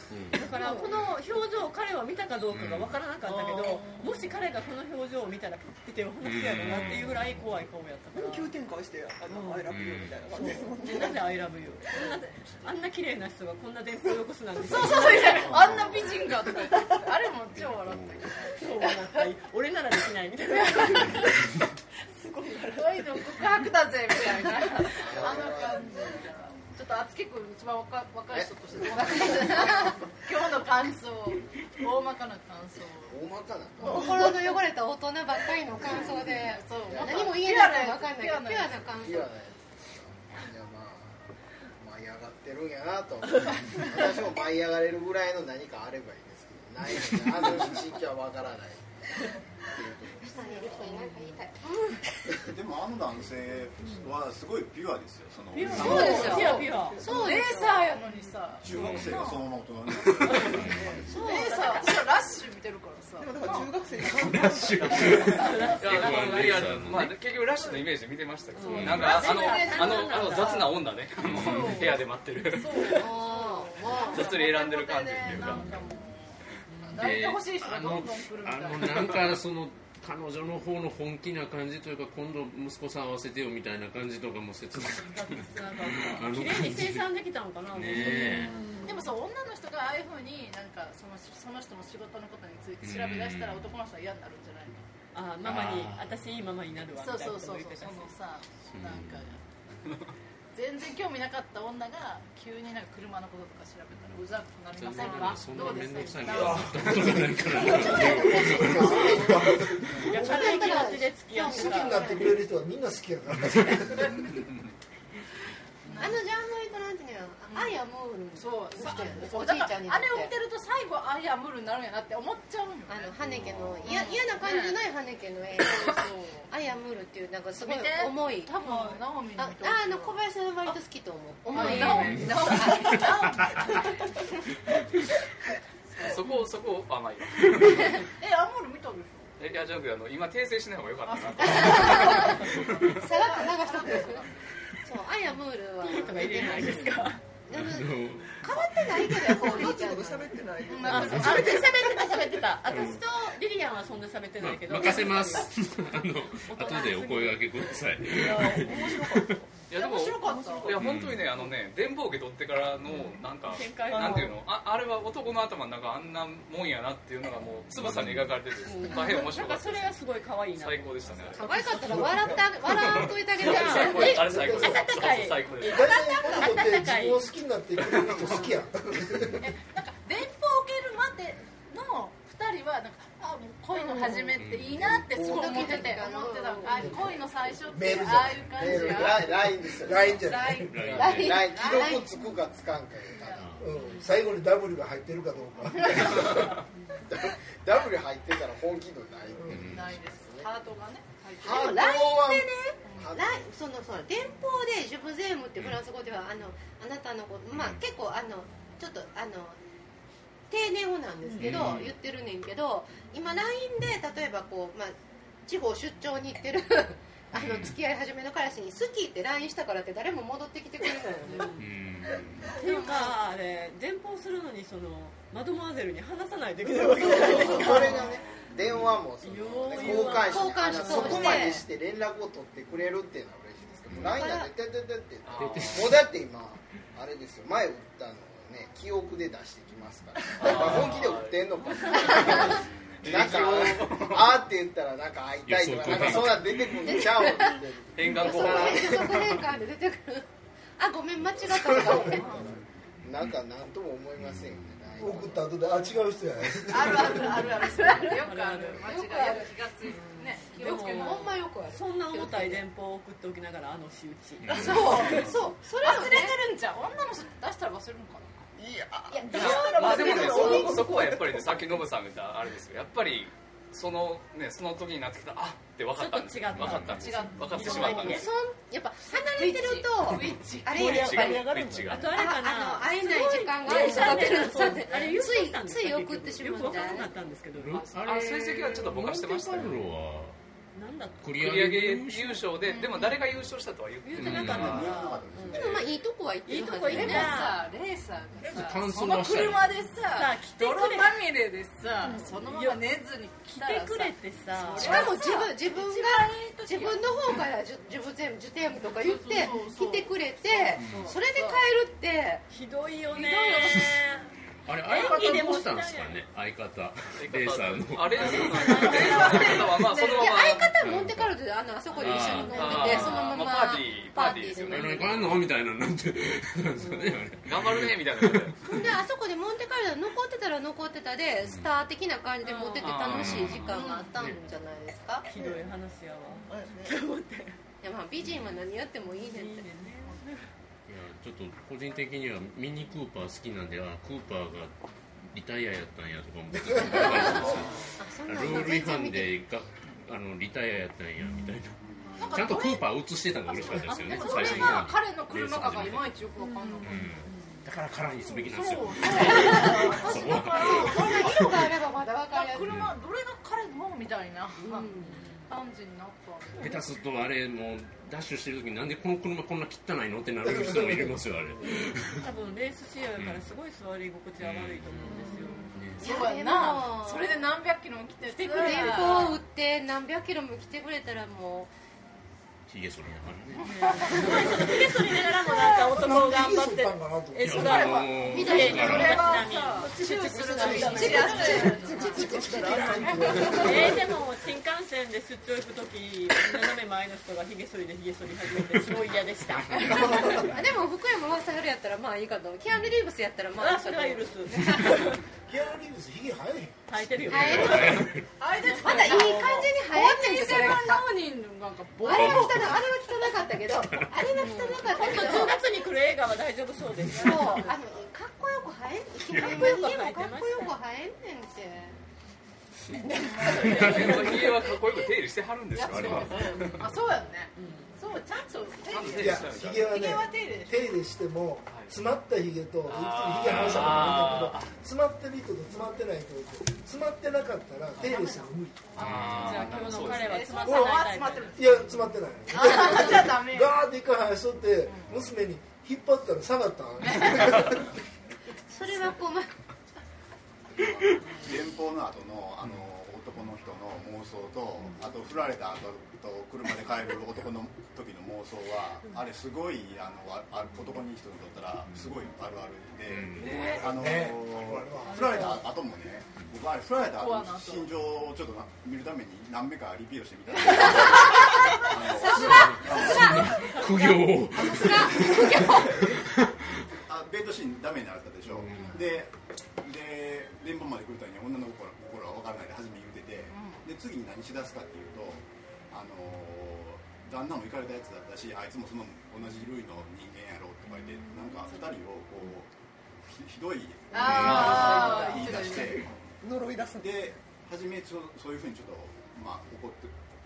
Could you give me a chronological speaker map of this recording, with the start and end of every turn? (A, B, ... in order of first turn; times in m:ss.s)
0:00.1-0:00.4 A
0:00.3-0:08.5 B
0:02.5-0:03.0 A
0:03.3-0:04.1 C
0:03.4-0:03.8 D
0:06.2-0:07.3 A
0:08.1-0:11.5 D
0:09.3-0:09.7 B
0:09.7-0:10.2 A
0:10.3-0:15.7 B
0:14.6-0:19.2 C
0:17.5-0:18.3 A
0:18.6-0:21.5 B
0:20.6-0:21.2 C
0:22.2-0:22.8 B
0:22.7-0:33.2 C
0:25.0-0:26.0 E
0:29.0-0:29.9 F
0:33.1-0:34.1 E
0:33.8-0:39.3 F
0:35.8-0:39.0 C
0:36.8-0:37.2 E
0:39.0-0:41.2 E
0:41.8-0:49.0 E
0:49.7-0:50.4 E
0:50.2-0:52.0 F
0:50.7-0:51.0 C
0:52.4-0:56.5 G
0:55.5-0:57.0 B
0:55.7-0:59.6 C
0:55.7-0:58.0 F
0:55.8-0:57.4 D
0:58.6-1:01.1 G
0:58.8-0:59.2 A
1:00.1-1:00.6 C
1:00.3-1:01.1 D
1:00.4-1:00.8 A
1:01.1-1:01.7 F
1:01.1-1:03.7 C
1:01.2-1:01.9 B
1:03.2-1:05.7 D
1:04.1-1:07.2 A
1:05.3-1:06.7 B
1:05.4-1:05.9 C
1:05.8-1:13.0 H
1:07.5-1:07.9 C
1:08.6-1:10.8 B
1:08.7-1:09.2 A
1:08.8-1:10.7 C
1:11.2-1:11.9 A
1:11.3-1:19.3 C
1:12.9-1:14.4 F
1:14.0-1:15.7 H
1:15.3-1:15.6 A
1:16.9-1:27.1 A
1:25.0-1:29.0 B
1:27.7-1:28.6 A
1:28.2-1:28.8 D
1:28.8-1:34.8 C
1:32.8-1:33.7 A
1:35.1-1:38.1 B
1:35.4-1:36.2 A
1:36.9-1:39.4 C
1:38.7-1:39.3 A
1:40.5-1:49.1 C
1:44.7-1:49.3 A
1:47.4-1:54.3 I
1:48.9-1:49.3 F
1:49.9-1:52.4 F
1:50.0-1:52.2 B
1:55.9-1:56.3 C
1:56.0-2:00.3 F
1:57.5-1:57.8 C
1:58.3-2:03.2 C
2:02.9-2:13.3 F
2:03.4-2:03.7 G
2:03.8-2:04.8 C
2:05.6-2:06.5 C
2:07.6-2:10.7 C
2:11.5-2:14.0 C
2:16.0-2:16.4 C
2:16.0-2:17.9 H
2:17.8-2:19.3 C
2:19.4-2:22.4 H
2:21.0-2:24.3 C
2:21.5-2:22.3 F
2:23.0-2:24.2 F
2:24.8-2:30.4 F
2:25.8-2:27.2 B
2:27.5-2:28.7 A
2:29.1-2:32.4 D
2:30.6-2:31.8 C
2:30.9-2:35.5 B
2:32.7-2:33.0 A
2:34.4-2:39.4 A
2:36.5-2:37.4 B
2:38.2-2:39.5 D
2:39.7-2:50.0 H
2:39.7-2:40.8 C
2:40.2-2:40.8 D
2:40.8-2:41.3 A
2:42.9-2:44.4 B
2:43.9-2:44.4 D
2:47.8-2:48.4 A
2:48.6-2:52.0 B
2:50.6-2:51.5 H
2:51.3-2:54.3 F
2:51.5-2:52.5 D
2:52.7-2:55.9 H
2:53.4-2:57.3 B
2:54.1-2:54.9 I
2:55.6-2:59.4 I
2:59.4-3:09.6 C
3:04.0-3:04.3 F
3:04.4-3:05.0 A
3:05.1-3:05.9 E
3:05.1-3:07.2 F
3:06.8-3:07.1 I
3:07.7-3:09.3 I
3:08.5-3:10.2 E
3:09.8-3:11.0 I
3:10.1-3:12.1 F
3:10.6-3:11.5 A
3:11.0-3:12.1 C
3:11.2-3:13.5 E
3:13.1-3:13.9 C
3:13.4-3:13.7 A
3:13.6-3:16.4 I
3:15.8-3:16.5 C
3:17.1-3:20.5 E
3:19.5-3:19.9 A
3:19.6-3:21.9 C
3:21.4-3:23.4 E
3:21.4-3:29.6 F
3:22.8-3:23.2 C
3:27.5-3:27.8 A
3:30.5-3:35.0 F
3:31.4-3:32.0 A
3:35.5-3:41.5 F
3:37.3-3:37.8 A
3:41.3-3:41.7 B
3:41.6-3:42.5 A
3:42.4-3:43.2 F
3:42.6-3:48.1 B
3:46.8-3:47.8 D
3:47.1-4:09.2 E
3:49.2-3:51.5 B
3:50.0-3:51.6 F
3:54.0-3:54.5 F
3:55.3-3:56.0 H
3:55.4-3:56.1 A
4:00.4-4:04.4 H
4:05.4-4:07.0 A
4:06.9-4:10.3 F
4:08.0-4:09.1 H
4:10.8-4:12.5 F
4:13.0-4:15.6 E
4:14.2-4:14.9 A
4:15.0-4:17.4 I
4:16.7-4:21.4 C
4:18.0-4:18.9 B
4:18.8-4:22.6 F
4:20.6-4:25.1 B
4:24.4-4:25.0 A
4:24.5-4:26.4 F
4:24.5-4:28.4 C
4:28.6-4:31.8 D
4:29.1-4:30.9 F
4:29.3-4:38.3 H
4:29.4-4:30.6 C
4:36.0-4:38.3 B
4:36.5-4:37.3 A
4:36.9-4:38.3 C
4:37.7-4:47.1 F
4:39.1-4:41.2 C
4:40.7-4:42.2 H
4:40.8-4:42.0 D
4:41.7-4:47.8 B
4:43.7-4:44.2 D
4:47.6-4:50.4 A
4:47.8-4:49.8 H
4:50.8-4:51.3 B
4:51.2-4:52.5 A
4:51.4-4:54.9 H
4:52.6-4:53.2 C
4:54.0-4:55.7 B
4:54.2-4:54.9 A
4:54.2-4:55.9 G
4:55.5-4:57.6 F
4:56.5-4:57.6 B
4:56.8-5:07.4 C
4:58.4-4:59.8 A
5:00.1-5:01.2 B
5:02.0-5:02.3 D
5:02.1-5:02.8 B
5:03.6-5:05.1 B
5:04.8-5:12.4 F
5:08.8-5:11.7 C
5:10.8-5:11.1 A
5:12.5-5:14.3 B
5:13.1-5:14.0 C
5:14.6-5:19.6 A
5:14.8-5:16.2 B
5:17.2-5:20.7 H
5:18.3-5:19.4 B
5:18.6-5:20.4 C
5:19.0-5:25.3 F
5:20.8-5:21.4 A
5:21.9-5:23.4 A
5:22.1-5:22.8 B
5:22.4-5:25.0 H
5:24.7-5:29.0 A
5:26.8-5:27.2 B
5:27.5-5:28.6 H
5:28.6-5:35.3 F
5:31.4-5:31.7 A
5:32.4-5:33.6 B
5:32.8-5:33.6 H
5:33.0-5:34.4 A
5:33.7-5:34.1 C
5:35.3-5:37.6 B
5:35.3-5:35.7 D
5:36.5-5:37.2 D
5:37.8-5:39.7 F
5:38.2-5:38.6 A
5:39.3-5:40.4 B
5:40.9-5:44.7 A
5:45.3-5:51.8 A
5:46.9-5:49.4 F
5:51.8-5:52.3 G
5:52.2-5:57.1 C
5:52.3-5:56.2 A
5:54.2-5:54.8 B
5:56.8-6:01.3 A
5:58.2-6:06.9 C
5:59.1-6:02.8 F
6:02.7-6:03.0 A
6:04.6-6:05.2 F
6:06.6-6:12.3 A
6:10.4-6:11.2 I
6:12.2-6:15.6 B
6:13.2-6:13.4 A
6:14.4-6:16.0 A
6:16.0-6:19.4 C
6:16.0-6:17.5 F
6:18.3-6:19.3 B
6:18.5-6:21.7 F
6:22.7-6:24.2 A
6:23.5-6:24.8 C
6:23.6-6:31.7 B
6:25.9-6:27.6 I
6:27.4-6:29.4 A
6:27.5-6:33.8 C
6:28.2-6:29.5 F
6:29.8-6:34.0 D
6:30.6-6:31.5 I
6:30.6-6:32.0 F
6:32.1-6:34.1 I
6:33.5-6:40.5 B
6:39.7-6:40.2 A
6:39.8-6:45.0 F
6:43.6-6:45.1 B
6:45.5-6:46.8 I
6:46.9-6:48.0 B
6:47.2-6:48.2 F
6:47.3-6:48.3 A
6:47.7-6:52.8 C
6:48.8-6:51.1 F
6:52.0-6:55.8 F
6:52.0-6:52.8 A
6:53.8-6:54.1 A
6:54.4-6:55.6 C
6:54.8-6:57.7 B
6:57.1-7:02.0 F
6:57.2-6:57.7 C
6:59.3-6:59.8 A
6:59.4-7:00.8 B
7:03.0-7:04.8 D
7:03.2-7:04.4 C
7:03.7-7:06.8 H
7:05.8-7:10.9 C
7:05.9-7:06.8 A
7:07.6-7:07.9 B
7:08.9-7:10.1 H
7:09.1-7:18.9 I
7:12.9-7:14.7 H
7:13.4-7:14.3 A
7:18.0-7:23.8 C
7:19.0-7:20.5 H
7:19.0-7:21.7 B
7:19.0-7:19.6 A
7:21.6-7:27.8 I
7:24.9-7:25.2 C
7:27.0-7:27.5 C
7:28.7-7:29.5 F
7:30.8-7:53.6 G
7:43.1-7:43.6 A
7:43.4-7:43.8 C
7:43.8-7:45.6 I
7:45.2-7:45.5 C
7:47.0-7:48.0 C
7:50.6-7:51.6 C
7:51.0-7:56.2 F
7:52.4-7:56.8 A
7:57.1-8:12.7 G
7:58.6-7:59.0 A
7:58.7-7:59.0 C
8:03.5-8:03.8 C
8:13.3-8:16.3 G
8:14.1-8:16.1 C
8:16.4-8:17.3 D
8:16.9-8:20.2 G